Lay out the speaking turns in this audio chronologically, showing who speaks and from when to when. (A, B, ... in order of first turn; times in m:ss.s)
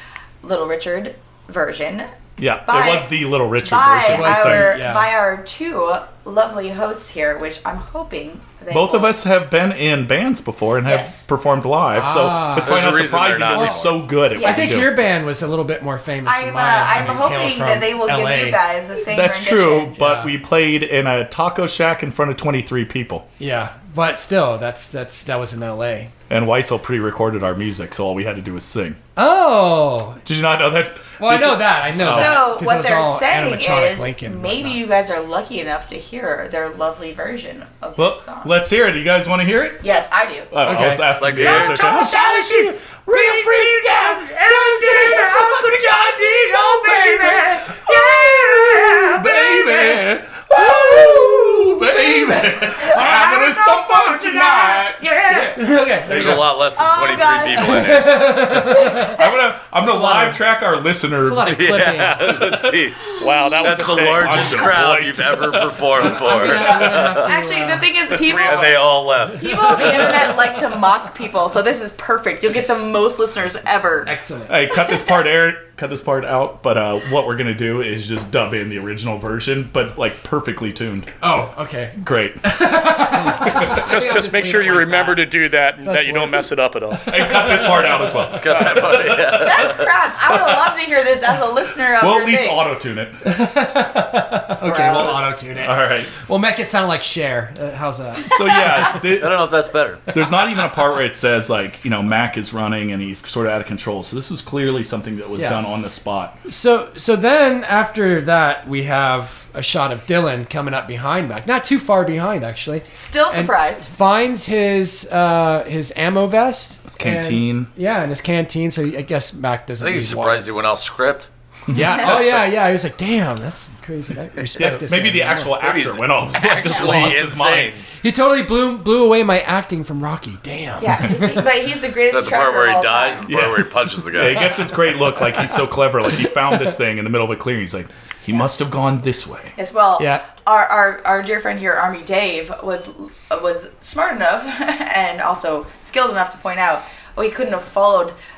0:00.4-0:02.1 A
0:02.4-0:04.7 B
0:02.6-0:09.2 A
0:04.1-0:05.1 C
0:08.7-0:15.0 B
0:10.8-0:11.2 A
0:11.9-0:12.8 C
0:12.6-0:14.0 D
0:14.3-0:14.7 A
0:14.3-0:18.6 C
0:16.2-0:19.9 A
0:19.1-0:23.2 B
0:19.9-0:20.3 C
0:23.4-0:26.1 C
0:26.3-0:29.0 B
0:29.2-0:30.2 C
0:30.2-0:32.4 B
0:31.2-0:34.8 C
0:32.0-0:38.5 A
0:38.0-0:39.8 B
0:39.8-0:40.5 A
0:40.5-0:55.0 B
0:40.6-0:48.8 C
0:41.2-0:41.9 D
0:47.7-0:49.2 A
0:52.8-0:55.6 A
0:55.4-0:56.4 C
0:56.1-0:58.5 D
0:56.1-0:56.5 B
0:56.7-0:58.0 A
0:57.7-0:59.1 C
0:58.5-0:59.3 A
0:59.1-1:01.9 B
0:59.8-1:00.4 C
1:01.2-1:02.2 C
1:01.4-1:07.3 D
1:03.2-1:04.8 E
1:03.8-1:05.5 B
1:06.0-1:07.9 C
1:06.3-1:14.1 A
1:08.1-1:08.8 E
1:08.3-1:10.4 D
1:14.0-1:14.6 C
1:14.5-1:21.1 B
1:21.2-1:26.5 C
1:22.0-1:23.8 B
1:23.6-1:27.1 E
1:27.0-1:29.7 B
1:27.2-1:28.2 C
1:28.3-1:29.9 D
1:29.2-1:32.6 A
1:30.3-1:30.6 B
1:32.0-1:33.2 B
1:33.3-1:38.9 C
1:34.6-1:35.4 A
1:35.0-1:36.1 B
1:38.3-1:39.4 B
1:38.6-1:38.9 A
1:39.1-1:40.1 D
1:40.1-1:46.3 B
1:45.4-1:45.6 C
1:46.4-2:00.5 C
1:52.9-1:53.9 A
1:56.9-1:57.7 B
1:59.8-2:01.3 D
2:01.7-2:05.6 C
2:04.6-2:07.7 B
2:05.6-2:07.8 D
2:08.0-2:11.4 C
2:10.8-2:13.4 A
2:12.1-2:14.4 D
2:13.2-2:19.5 B
2:19.6-2:28.2 A
2:20.0-2:20.2 C